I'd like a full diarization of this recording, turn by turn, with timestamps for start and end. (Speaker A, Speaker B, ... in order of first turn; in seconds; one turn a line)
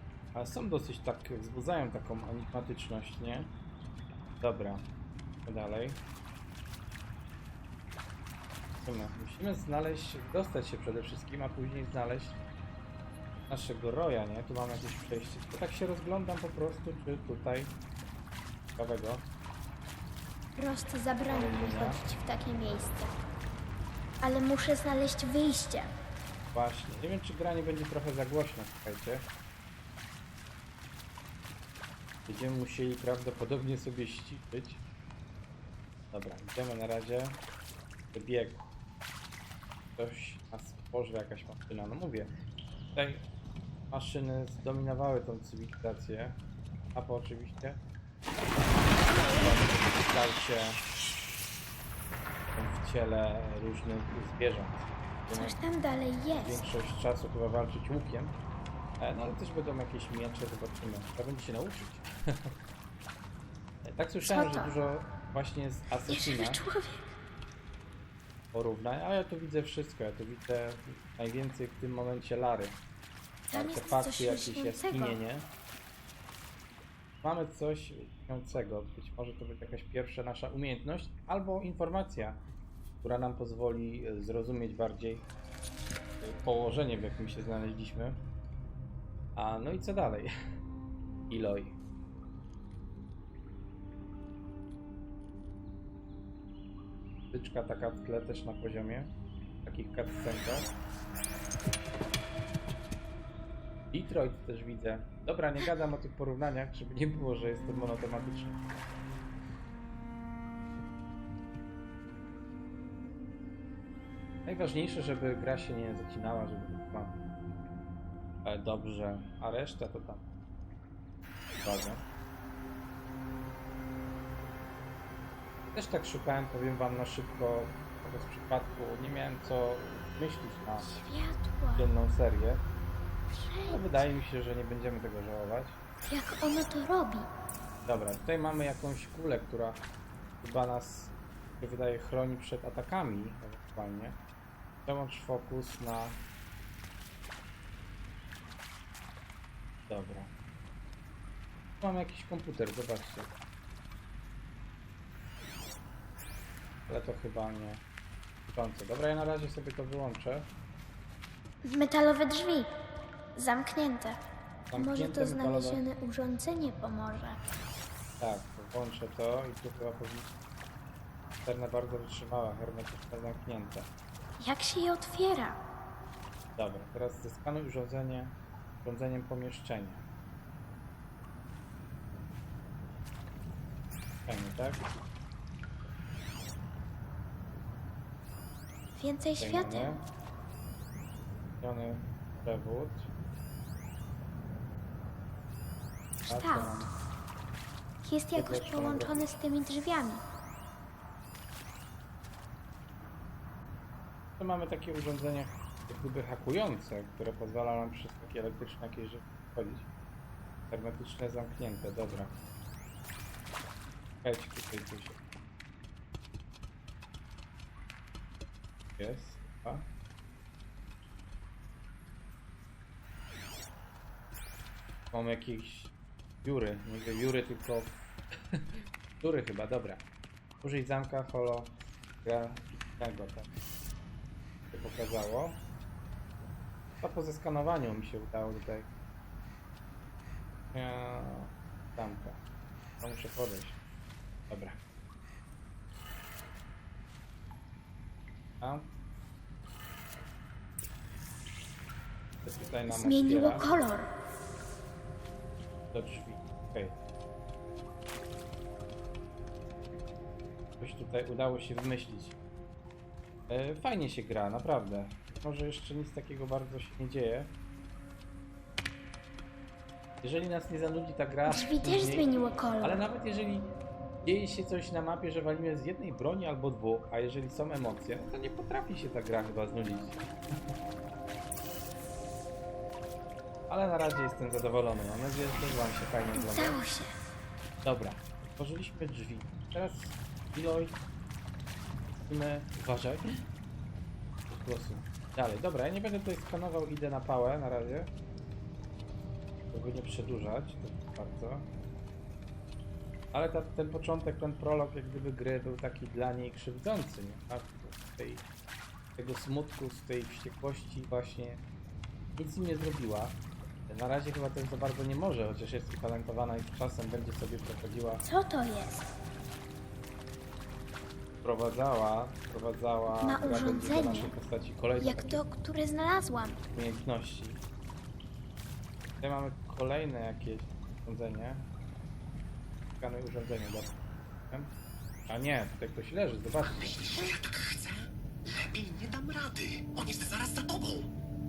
Speaker A: 0.3-3.6
Speaker A: 4.4-4.9
Speaker A: 5.4-6.0
Speaker A: 8.8-12.4
Speaker A: 13.5-17.8
Speaker A: 18.8-19.3
Speaker B: 20.6-23.1
Speaker A: 21.2-22.0
Speaker B: 24.2-25.9
Speaker A: 26.5-29.3
Speaker A: 32.3-34.8
Speaker A: 36.1-37.4
Speaker A: 38.1-38.7
Speaker A: 40.0-42.3
Speaker A: 42.9-43.3
Speaker A: 43.9-46.4
Speaker A: 46.9-47.8
Speaker A: 49.1-50.8
Speaker A: 52.5-55.5
Speaker B: 55.3-56.6
Speaker A: 56.4-58.4
Speaker A: 59.0-62.5
Speaker A: 63.8-66.6
Speaker B: 64.2-64.7
Speaker B: 66.1-67.1
Speaker A: 68.5-72.8
Speaker B: 73.5-75.2
Speaker A: 73.5-75.5
Speaker A: 77.2-82.4
Speaker A: 83.0-85.3
Speaker A: 86.2-88.2
Speaker A: 89.3-90.3
Speaker A: 91.3-91.8
Speaker A: 97.3-100.7
Speaker A: 103.9-108.7
Speaker A: 114.5-117.2
Speaker A: 118.4-120.3
Speaker A: 121.6-122.0
Speaker A: 125.7-130.9
Speaker B: 130.8-131.9
Speaker A: 131.8-132.7
Speaker B: 133.3-133.9
Speaker A: 133.7-135.8
Speaker B: 136.0-137.3
Speaker A: 137.8-139.9
Speaker A: 140.4-144.2
Speaker A: 144.8-146.2
Speaker A: 149.9-150.3
Speaker A: 151.8-153.3
Speaker A: 156.9-157.8
Speaker A: 158.5-160.5
Speaker B: 161.6-162.7
Speaker B: 163.3-164.2
Speaker A: 164.7-165.8
Speaker B: 164.8-167.4
Speaker A: 168.2-170.3
Speaker A: 171.4-173.9
Speaker B: 174.4-175.6
Speaker A: 176.6-180.1
Speaker A: 184.2-184.9
Speaker B: 188.9-190.0
Speaker A: 189.4-190.0
Speaker A: 191.6-193.1
Speaker A: 196.3-196.9
Speaker B: 196.3-196.9
Speaker B: 198.0-200.2
Speaker A: 198.3-199.3
Speaker A: 204.4-209.9
Speaker A: 210.7-212.4
Speaker A: 214.2-215.2
Speaker A: 219.0-219.9
Speaker A: 225.1-228.6
Speaker A: 229.2-230.1
Speaker A: 230.6-233.5
Speaker A: 234.7-235.6
Speaker A: 237.0-238.9
Speaker A: 240.7-242.4
Speaker A: 243.0-243.8
Speaker A: 244.5-244.8
Speaker A: 248.6-248.9
Speaker A: 252.4-253.7
Speaker B: 252.9-254.1
Speaker A: 255.9-257.0
Speaker A: 260.8-262.4
Speaker A: 263.5-267.6
Speaker A: 270.2-272.3
Speaker B: 271.5-273.0
Speaker A: 272.8-280.3
Speaker A: 283.7-286.8
Speaker B: 286.4-287.1
Speaker A: 287.8-291.0
Speaker A: 292.3-293.3
Speaker A: 294.5-298.1
Speaker A: 299.7-301.7
Speaker A: 303.3-308.4
Speaker A: 309.2-311.6
Speaker A: 312.4-318.2
Speaker B: 318.2-319.1
Speaker A: 321.4-325.4
Speaker B: 323.2-324.3
Speaker B: 325.0-326.6
Speaker A: 326.7-327.6
Speaker A: 329.2-331.7
Speaker A: 333.0-334.7
Speaker A: 335.3-337.0
Speaker C: 336.7-341.1